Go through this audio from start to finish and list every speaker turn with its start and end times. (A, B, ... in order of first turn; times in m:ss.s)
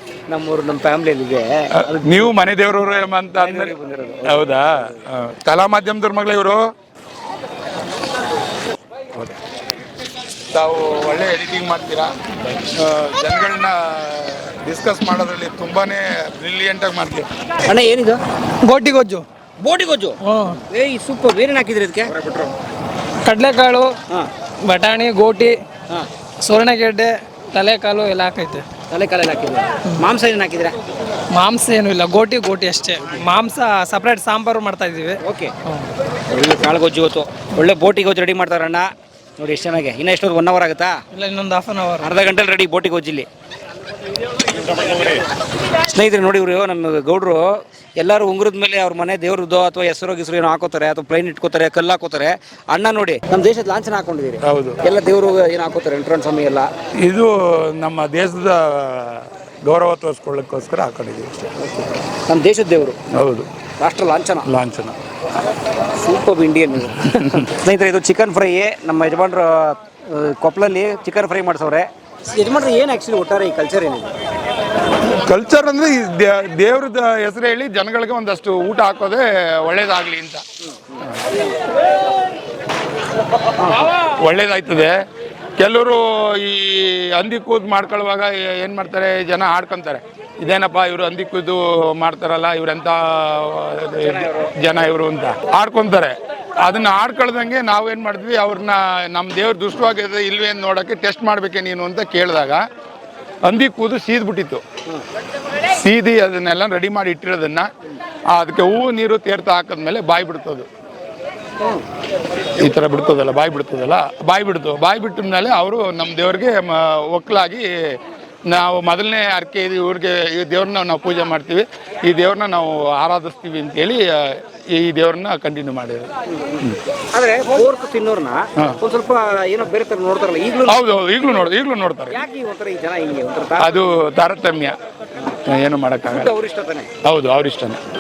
0:00.3-0:02.3 A
0:01.8-0:03.7 B
0:03.4-0:04.7 A
0:04.3-0:06.6 B
0:10.5-0:12.1 B
0:12.8-0:17.3 B
0:17.7-0:18.2 A
0:18.7-0:19.2 C
0:19.6-0:20.2 A
0:20.2-0:20.6 C
0:20.7-0:22.1 A
0:23.2-0:23.9 C
0:24.7-0:25.6 C
0:26.4-0:28.6 C
0:28.9-0:30.7 A
0:31.4-0:35.2 C
0:35.2-0:35.5 A
0:36.3-0:38.9 A
0:39.4-0:41.0 A
0:41.1-0:42.0 C
0:42.0-0:43.3 A
0:44.6-0:45.0 A
0:45.9-0:47.4 A
0:48.0-0:56.7 A
0:54.5-0:54.8 B
0:57.0-1:01.5 B
1:01.6-1:03.0 A
1:03.2-1:03.5 B
1:03.8-1:04.5 A
1:04.4-1:05.0 B
1:06.0-1:14.1 A
1:15.2-1:20.4 B
1:24.2-1:25.0 B
1:25.6-1:42.6 B
1:34.0-1:34.5 A
1:43.4-1:44.6 B
1:45.7-1:47.7 B
1:48.3-1:50.7 B
1:52.6-2:06.1 B
2:06.3-2:10.8 A
2:10.7-2:12.1 B
2:12.1-2:13.8 A
2:13.6-2:14.8 B
2:15.5-2:16.3 B
2:16.1-2:16.9 A
2:17.0-2:17.8 B